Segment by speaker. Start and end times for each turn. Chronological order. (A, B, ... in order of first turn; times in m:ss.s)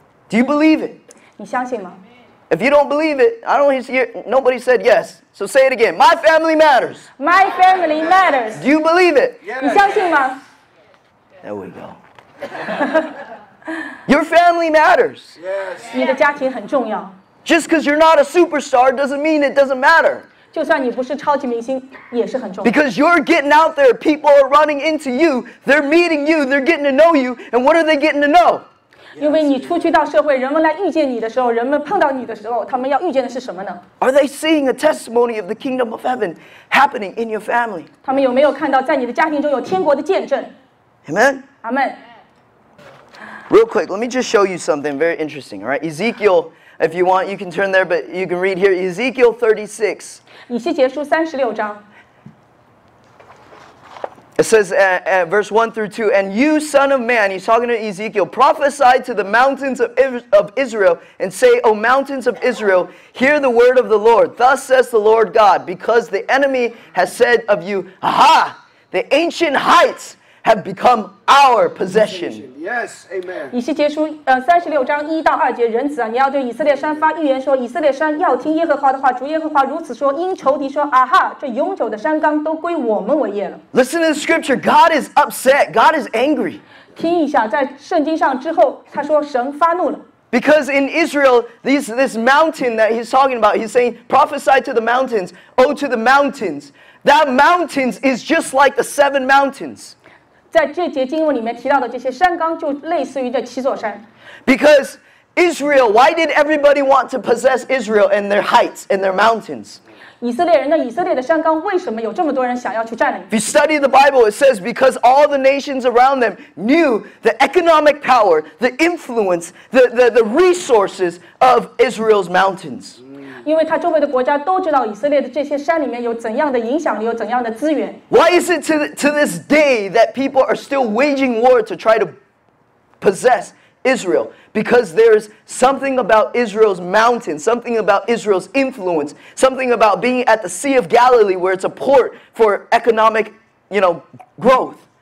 0:00.3-0:01.0 A
0:01.4-0:02.0 B
0:02.5-0:07.1 A
0:07.2-0:08.6 B
0:08.5-0:09.4 A
0:09.4-0:09.9 C
0:09.6-0:10.4 B
0:11.4-0:12.0 A
0:12.8-0:13.1 B
0:14.1-0:15.4 A
0:15.4-0:16.0 C
0:15.9-0:17.2 B
0:17.4-0:20.3 A
0:20.5-0:22.7 B
0:22.6-0:28.6 A
0:29.2-0:29.8 C
0:29.2-0:33.8 B
0:34.0-0:37.9 A
0:38.0-0:40.5 B
0:41.0-0:41.4 A
0:41.6-0:42.0 B
0:43.5-0:50.2 A
0:50.5-0:51.8 B
0:54.4-1:12.4 A
1:12.2-1:13.5 C
1:13.5-1:23.6 B
1:23.7-1:26.6 A
1:26.9-1:30.0 B
1:30.3-1:39.9 A
1:40.5-1:44.0 B
1:44.4-1:49.8 A
1:50.2-1:53.3 B
1:53.3-2:03.0 A
2:03.4-2:08.0 B
2:08.1-2:12.1 A
2:13.0-2:24.8 A